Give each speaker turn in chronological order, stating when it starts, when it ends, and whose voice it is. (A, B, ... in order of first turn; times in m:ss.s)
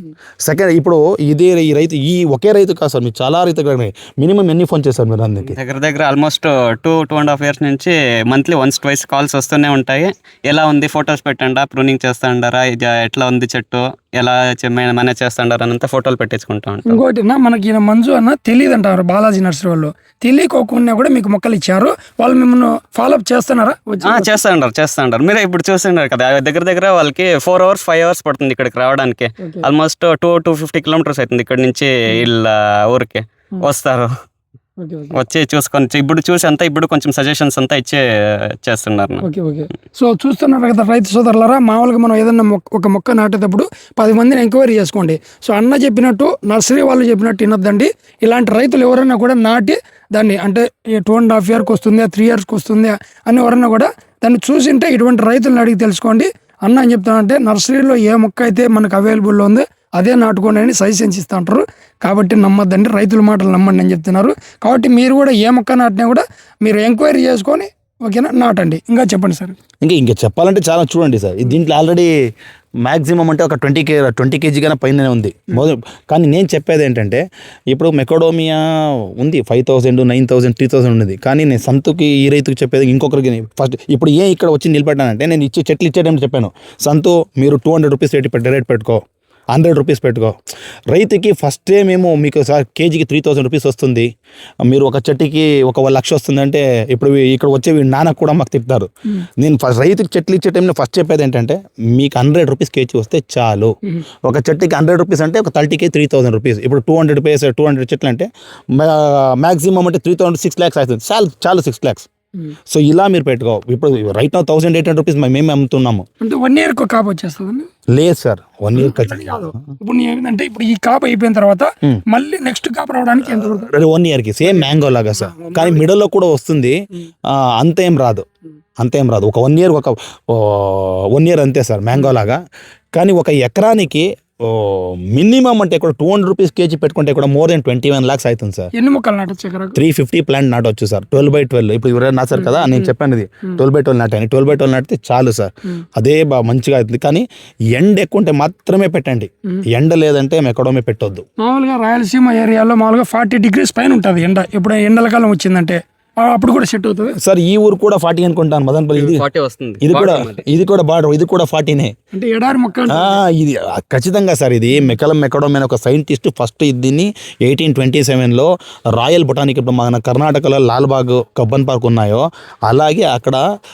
0:00.4-0:05.6 A
0:05.6-0:17.0 B
0:16.9-0:24.4 C
0:24.0-0:34.1 B
0:34.8-0:35.2 C
0:35.1-0:39.3 B
0:39.2-1:09.6 C
1:09.8-1:12.1 A
1:12.8-1:29.0 A
1:29.5-1:30.3 A
1:30.9-1:34.1 A
1:34.7-1:52.1 A
1:52.7-1:56.0 A
1:56.2-1:57.7 C
1:57.9-1:59.7 A
1:58.7-2:03.7 C
2:03.3-2:06.8 A
2:04.4-2:05.8 C
2:07.3-2:08.3 A
2:08.8-2:12.4 A
2:13.0-2:18.7 A
2:18.8-2:19.8 C
2:19.8-2:31.2 A
2:22.4-2:22.9 C
2:31.4-2:37.2 C
2:37.2-2:39.2 A
2:39.0-2:40.4 B
2:39.8-2:41.9 A
2:42.1-2:43.2 C
2:42.9-2:53.4 A